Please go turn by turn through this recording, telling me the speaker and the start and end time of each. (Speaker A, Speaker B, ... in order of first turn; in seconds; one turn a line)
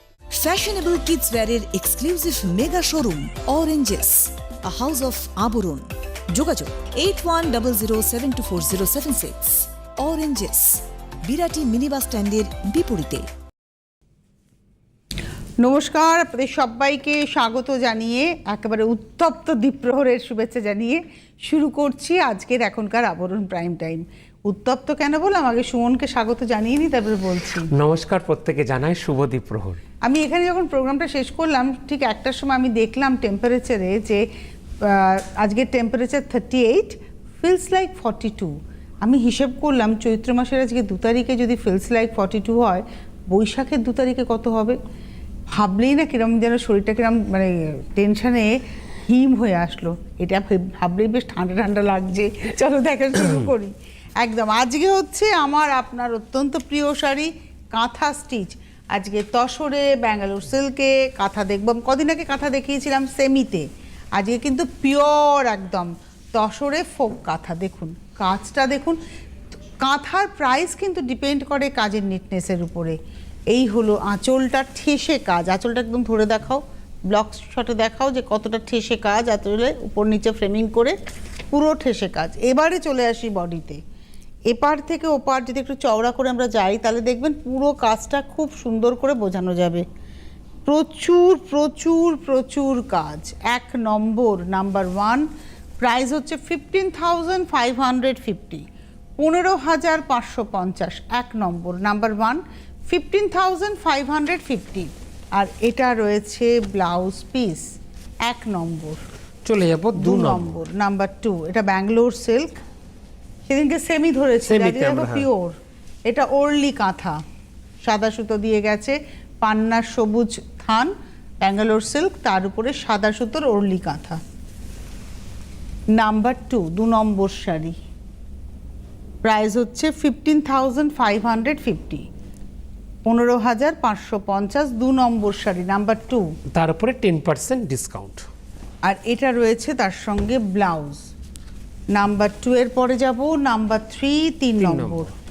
Speaker A: 0.3-13.3
Speaker B: 15.6-27.7
Speaker C: 27.7-29.8
Speaker B: 30.0-34.2
Speaker B: 34.8-44.8
Speaker B: 45.5-69.0
Speaker B: 69.8-73.0
Speaker B: 73.5-81.0
Speaker B: 81.5-83.8
Speaker B: 84.5-89.8
Speaker B: 90.7-95.3
Speaker B: 95.8-98.7
Speaker B: 99.2-107.7
Speaker B: 108.2-109.0
Speaker C: 109.5-110.5
Speaker B: 110.0-112.6
Speaker B: 113.5-115.5
Speaker C: 114.5-115.3
Speaker B: 116.1-117.2
Speaker B: 117.8-124.2
Speaker B: 126.0-127.8
Speaker B: 129.2-132.1
Speaker B: 133.1-136.3
Speaker C: 136.5-138.3
Speaker B: 138.8-141.1
Speaker B: 141.9-145.1
Speaker C: 144.6-145.1